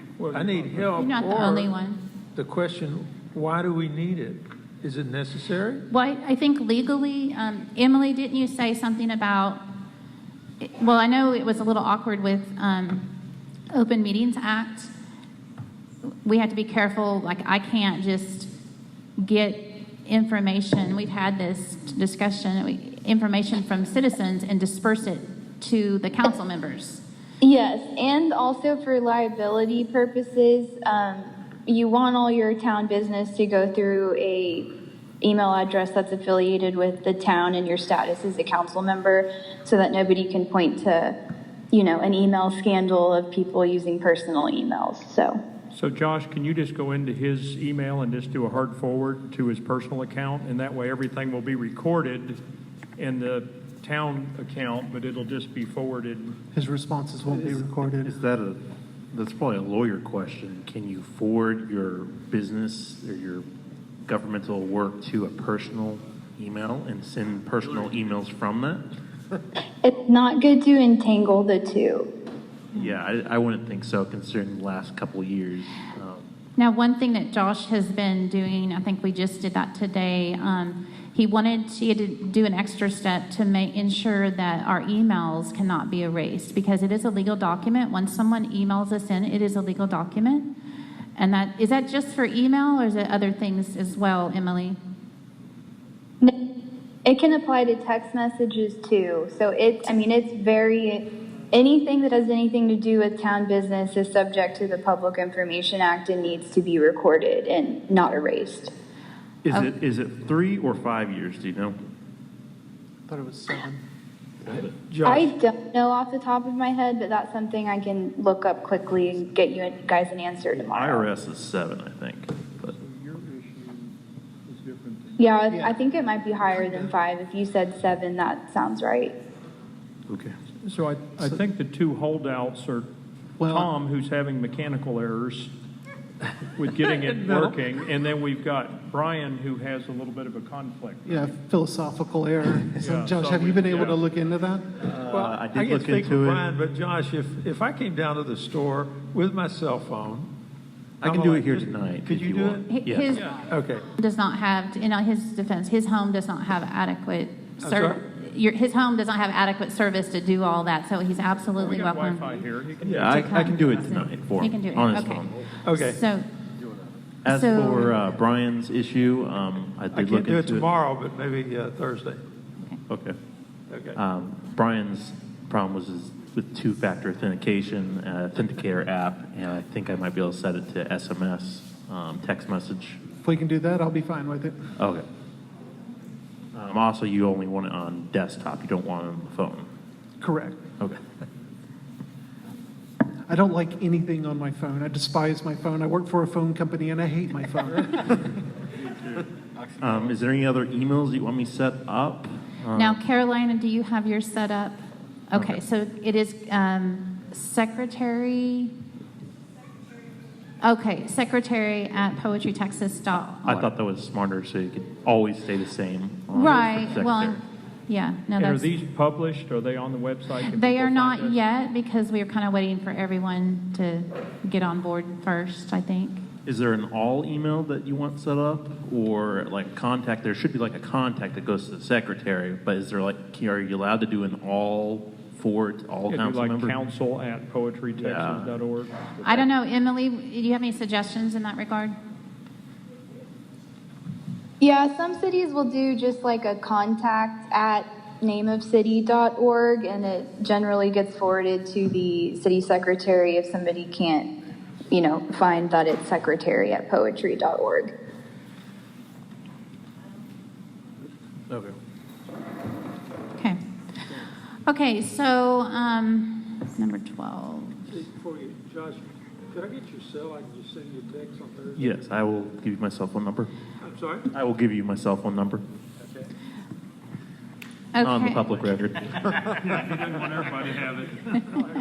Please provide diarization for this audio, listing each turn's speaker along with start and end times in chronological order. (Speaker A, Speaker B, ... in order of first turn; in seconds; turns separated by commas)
Speaker A: 0.2-0.9, Speaker B: 0.3-1.7, Speaker C: 0.9-2.0, Speaker B: 2.4-5.8, Speaker C: 5.9-9.6, Speaker C: 10.6-13.1, Speaker C: 13.7-14.9, Speaker C: 16.2-18.5, Speaker C: 19.2-27.0, Speaker D: 27.4-34.7, Speaker D: 35.2-41.2, Speaker D: 41.7-45.4, Speaker A: 45.7-52.4, Speaker A: 53.0-56.4, Speaker E: 56.5-58.1, Speaker F: 58.0-58.6, Speaker F: 59.1-63.5, Speaker F: 64.0-68.8, Speaker D: 69.8-72.1, Speaker F: 72.7-76.3, Speaker C: 76.6-90.5, Speaker C: 91.2-94.8, Speaker D: 97.0-108.7, Speaker F: 109.5-111.8, Speaker E: 113.1-113.8, Speaker B: 114.5-115.3, Speaker D: 115.0-121.1, Speaker F: 120.5-122.8, Speaker A: 122.7-125.3, Speaker D: 125.2-129.2, Speaker E: 125.5-125.8, Speaker E: 126.5-126.9, Speaker F: 130.1-130.3, Speaker A: 130.6-132.9, Speaker E: 133.4-133.7, Speaker A: 133.5-135.5, Speaker A: 136.6-141.3, Speaker B: 136.8-137.6, Speaker E: 141.1-144.8, Speaker A: 142.8-144.0, Speaker F: 144.9-146.5, Speaker B: 145.0-150.3, Speaker F: 151.0-153.2, Speaker B: 151.0-152.7, Speaker C: 152.7-153.3, Speaker B: 153.3-153.9, Speaker C: 154.0-162.4, Speaker B: 157.6-158.0, Speaker A: 161.6-163.6, Speaker F: 162.8-165.3, Speaker C: 163.0-166.3, Speaker B: 165.7-166.0, Speaker F: 167.2-170.7, Speaker C: 167.3-168.0, Speaker B: 169.9-172.2, Speaker F: 172.9-173.2, Speaker B: 173.7-174.0, Speaker F: 174.0-183.0, Speaker E: 183.2-184.7, Speaker F: 184.8-185.0, Speaker F: 186.6-189.7, Speaker E: 190.2-190.7, Speaker E: 193.3-198.4, Speaker F: 199.8-203.0, Speaker C: 202.7-208.7, Speaker F: 205.3-205.6, Speaker C: 210.6-213.7, Speaker F: 213.4-217.4, Speaker C: 216.3-218.7, Speaker A: 218.4-221.4, Speaker C: 220.4-226.2, Speaker F: 226.5-236.8, Speaker A: 236.1-239.4, Speaker F: 238.0-238.6, Speaker C: 239.2-242.0, Speaker D: 244.6-254.3, Speaker D: 254.9-257.9, Speaker C: 264.2-267.8, Speaker B: 267.9-271.9, Speaker F: 271.8-273.5, Speaker B: 273.8-274.3, Speaker F: 274.3-275.6, Speaker C: 277.9-278.5, Speaker F: 278.0-279.6, Speaker A: 279.6-281.6